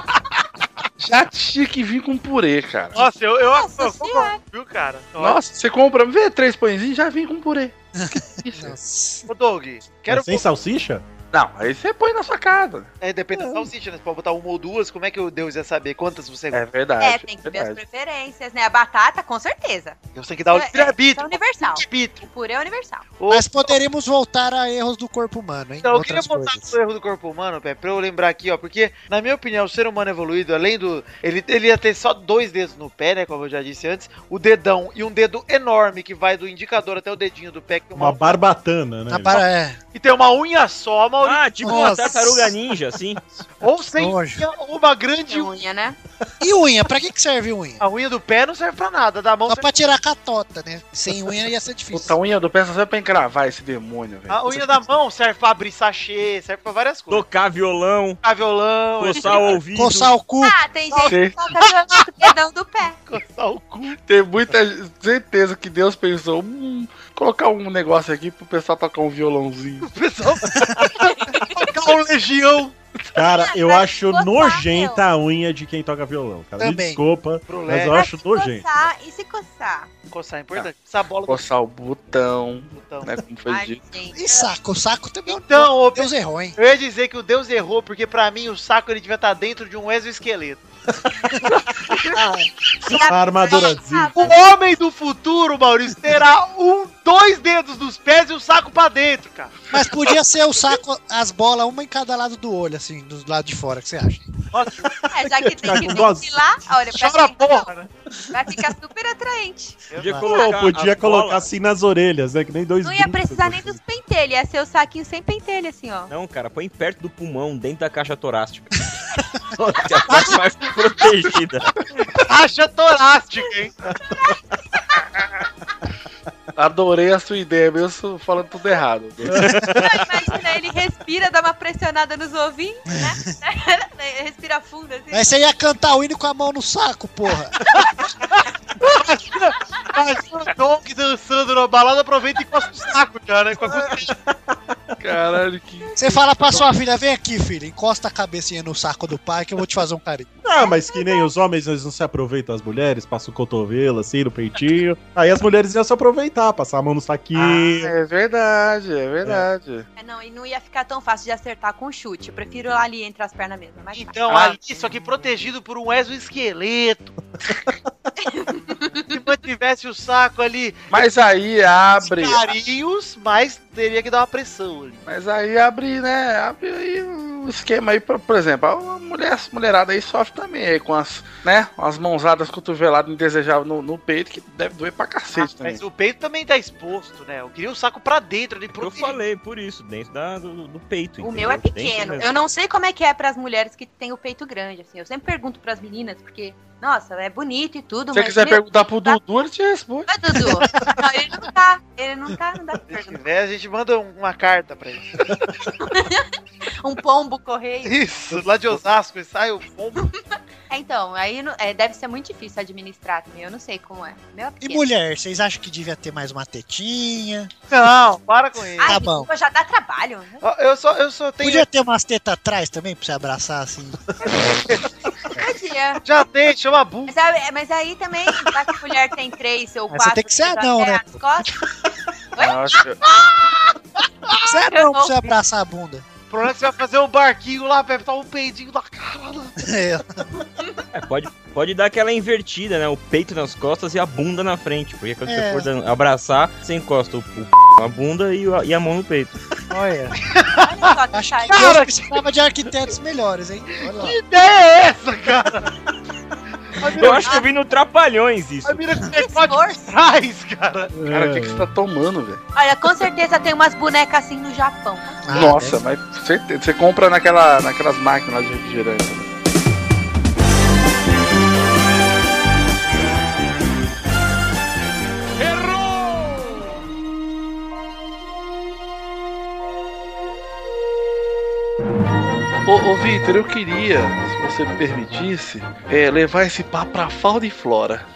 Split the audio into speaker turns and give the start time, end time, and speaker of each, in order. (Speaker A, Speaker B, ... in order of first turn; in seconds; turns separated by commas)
Speaker A: 1.0-3.0, Speaker B: 2.9-5.4, Speaker C: 3.4-4.4, Speaker A: 5.2-8.8, Speaker D: 8.0-9.2, Speaker B: 9.3-10.5, Speaker E: 10.1-11.0, Speaker A: 11.3-12.9, Speaker B: 13.0-16.6, Speaker E: 13.3-13.7, Speaker A: 16.5-17.8, Speaker C: 17.0-20.0, Speaker B: 20.1-22.2, Speaker C: 20.5-23.1, Speaker B: 23.2-23.7, Speaker D: 23.3-26.7, Speaker B: 25.8-38.4, Speaker E: 38.0-39.4, Speaker D: 39.1-39.8, Speaker B: 39.9-42.4, Speaker F: 41.2-43.2, Speaker D: 41.6-42.5, Speaker B: 43.6-45.6, Speaker D: 44.0-44.4, Speaker C: 45.3-46.0, Speaker D: 46.4-47.8, Speaker B: 47.8-49.7, Speaker D: 49.5-52.1, Speaker A: 51.9-54.8, Speaker B: 54.3-57.2, Speaker F: 57.1-58.2, Speaker B: 58.2-59.5, Speaker F: 59.0-60.1, Speaker C: 59.2-59.5, Speaker D: 59.7-60.5, Speaker C: 60.4-63.0, Speaker B: 60.9-61.1, Speaker A: 61.1-61.4, Speaker B: 63.0-64.0, Speaker A: 64.1-69.9, Speaker B: 69.8-72.8, Speaker C: 71.0-71.7, Speaker E: 73.1-78.7, Speaker C: 73.2-75.0, Speaker D: 76.6-77.0, Speaker B: 77.5-78.0, Speaker C: 77.9-79.9, Speaker B: 80.1-81.5, Speaker A: 81.3-83.9, Speaker B: 82.7-83.1, Speaker C: 83.5-84.5, Speaker D: 84.1-86.6, Speaker B: 85.2-90.6, Speaker C: 92.8-94.4, Speaker E: 92.9-94.3, Speaker B: 94.2-99.5, Speaker D: 99.7-104.3, Speaker B: 104.5-105.0, Speaker C: 105.1-107.7, Speaker E: 105.2-106.4, Speaker B: 106.9-107.9, Speaker C: 108.3-110.6, Speaker B: 109.9-110.2, Speaker F: 110.0-111.5, Speaker E: 110.0-113.8, Speaker C: 112.8-116.1, Speaker F: 116.1-119.0, Speaker F: 119.6-121.7, Speaker B: 121.9-123.9, Speaker C: 124.1-124.4, Speaker A: 126.5-129.4, Speaker E: 129.2-129.8, Speaker F: 129.3-130.0, Speaker C: 129.7-135.3, Speaker D: 135.1-137.6, Speaker B: 138.2-144.1, Speaker E: 143.7-144.9, Speaker A: 145.0-146.6, Speaker D: 145.9-150.3, Speaker E: 150.4-157.9, Speaker C: 150.6-151.2, Speaker A: 157.3-159.8, Speaker C: 159.9-164.3, Speaker B: 163.9-167.1, Speaker C: 168.2-169.2, Speaker B: 169.1-171.0, Speaker A: 170.9-172.5, Speaker B: 172.0-175.0, Speaker A: 175.1-185.8, Speaker B: 185.3-189.2, Speaker F: 188.7-192.3, Speaker C: 191.2-199.2, Speaker A: 198.1-200.1, Speaker C: 200.1-203.2, Speaker B: 200.6-201.0, Speaker B: 202.9-205.3, Speaker C: 205.8-206.3, Speaker C: 206.8-208.1, Speaker B: 207.8-210.0, Speaker C: 210.7-214.9, Speaker D: 214.6-217.5, Speaker B: 217.7-219.0, Speaker C: 218.8-220.4, Speaker D: 218.8-219.3, Speaker B: 220.4-221.7, Speaker D: 221.4-224.0, Speaker C: 225.3-226.0, Speaker B: 226.0-227.1, Speaker C: 227.1-231.5, Speaker D: 229.9-231.1, Speaker C: 232.3-232.8, Speaker A: 232.4-233.0, Speaker C: 234.4-235.3, Speaker D: 234.4-236.0, Speaker B: 236.3-239.5, Speaker D: 239.6-240.2, Speaker F: 240.9-249.4, Speaker D: 245.2-245.7, Speaker D: 249.7-250.1, Speaker B: 250.3-250.9, Speaker C: 250.5-251.8, Speaker D: 251.1-254.2, Speaker B: 251.5-252.2, Speaker B: 253.9-255.7, Speaker B: 256.7-257.5, Speaker F: 256.9-258.9, Speaker B: 258.6-260.9, Speaker C: 259.1-259.9, Speaker E: 260.9-261.7, Speaker A: 261.1-262.4, Speaker C: 262.5-265.2, Speaker D: 265.2-265.8, Speaker A: 265.3-269.3, Speaker A: 275.7-276.5, Speaker A: 282.6-288.1